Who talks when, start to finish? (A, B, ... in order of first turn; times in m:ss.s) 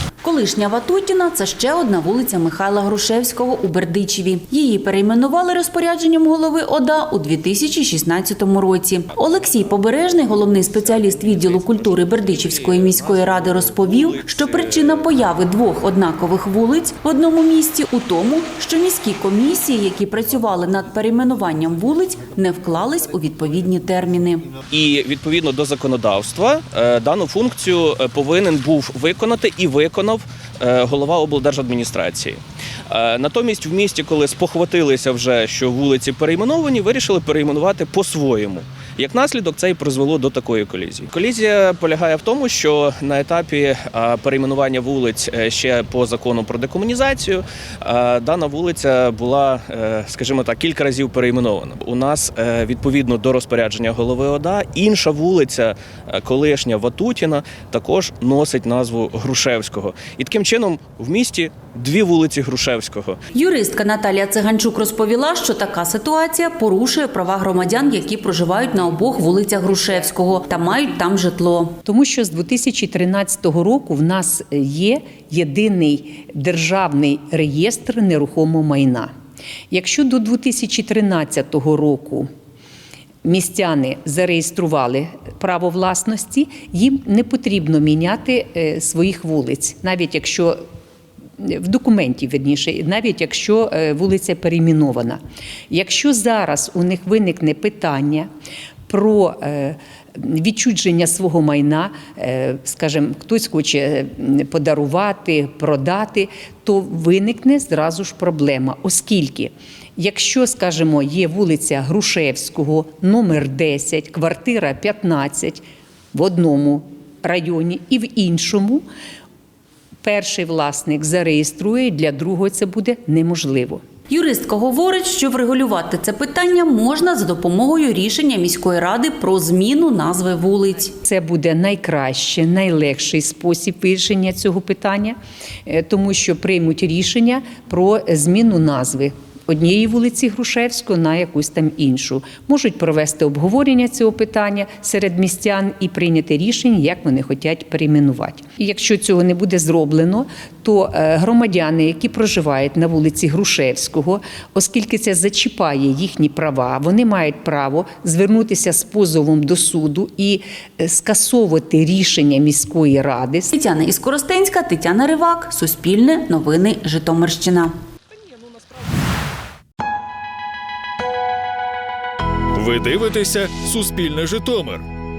0:00.2-0:24.5 A
0:10.5-0:15.1 B
0:24.7-1:03.2 B
1:03.3-1:11.8 A
1:11.8-1:19.1 C
1:19.7-1:22.3 C
1:23.2-1:30.6 C
1:31.4-1:38.3 C
1:38.9-1:55.6 C
1:56.1-1:58.8 C
2:00.0-2:03.8 C
2:04.1-2:10.9 A
2:10.9-2:43.5 C
2:43.5-2:47.7 A
2:52.6-2:54.8 D